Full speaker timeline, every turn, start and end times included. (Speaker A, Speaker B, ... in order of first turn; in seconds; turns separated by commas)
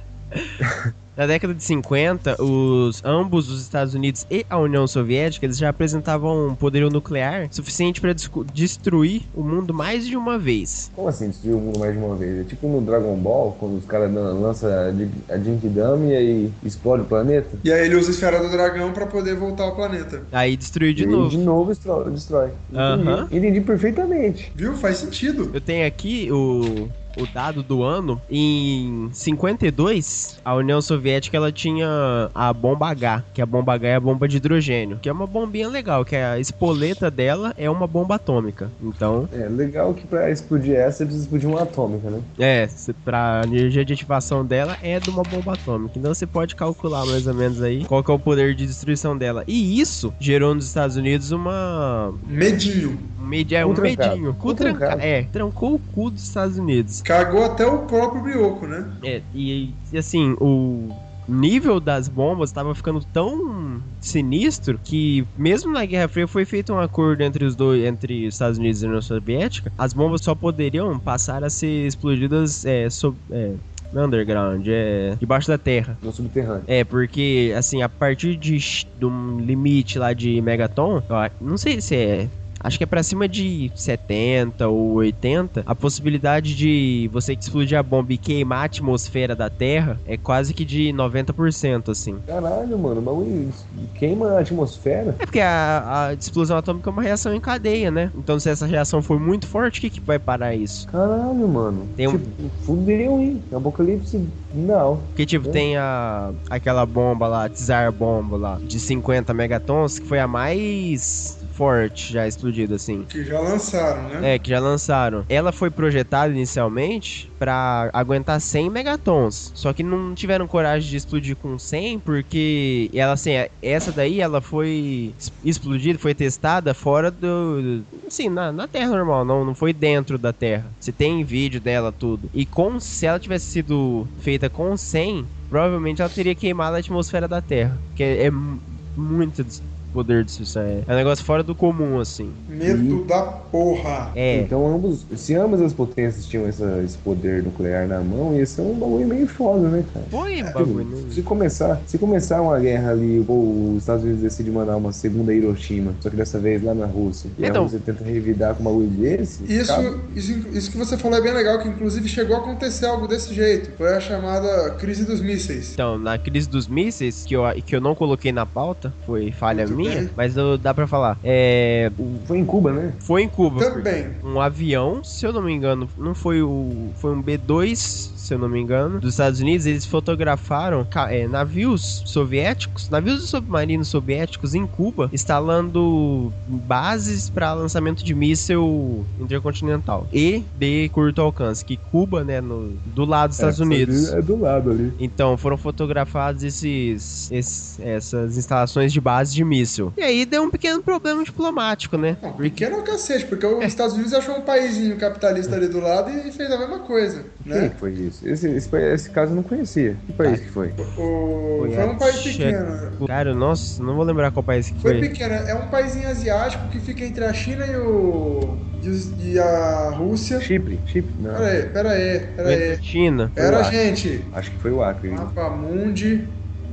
Speaker A: 0.6-0.9, Speaker B: 1.2-10.9, Speaker A: 10.9-17.6, Speaker C: 17.6-20.3, Speaker B: 20.3-21.4, Speaker A: 21.0-24.5, Speaker B: 22.8-23.3, Speaker C: 24.6-25.5, Speaker B: 25.5-39.3, Speaker A: 39.3-42.3, Speaker B: 42.4-52.3, Speaker C: 52.3-53.1, Speaker B: 53.2-57.0, Speaker A: 53.6-55.1, Speaker C: 57.0-59.0, Speaker B: 59.0-76.0, Speaker A: 76.0-76.7, Speaker B: 76.7-92.2, Speaker A: 92.3-95.2, Speaker B: 95.2-100.9, Speaker A: 100.9-105.7, Speaker B: 102.0-102.2, Speaker B: 105.2-113.1, Speaker C: 113.1-114.3, Speaker B: 114.2-142.4, Speaker C: 142.5-144.2, Speaker A: 142.6-143.0, Speaker B: 144.1-144.5, Speaker A: 144.3-159.9, Speaker B: 150.1-151.2, Speaker B: 157.4-157.8, Speaker C: 159.4-165.8, Speaker B: 165.8-172.0, Speaker C: 169.5-170.1, Speaker A: 172.0-173.0, Speaker B: 173.0-194.2, Speaker C: 173.6-174.2, Speaker A: 193.4-195.0, Speaker B: 195.0-202.7, Speaker C: 202.2-207.7, Speaker A: 207.4-210.8, Speaker C: 210.8-213.0, Speaker B: 211.6-215.1, Speaker C: 214.8-220.5, Speaker A: 220.4-221.5, Speaker C: 221.3-222.8, Speaker B: 222.4-223.3, Speaker C: 223.4-224.3, Speaker A: 223.4-223.8, Speaker A: 224.3-225.3, Speaker C: 225.1-226.4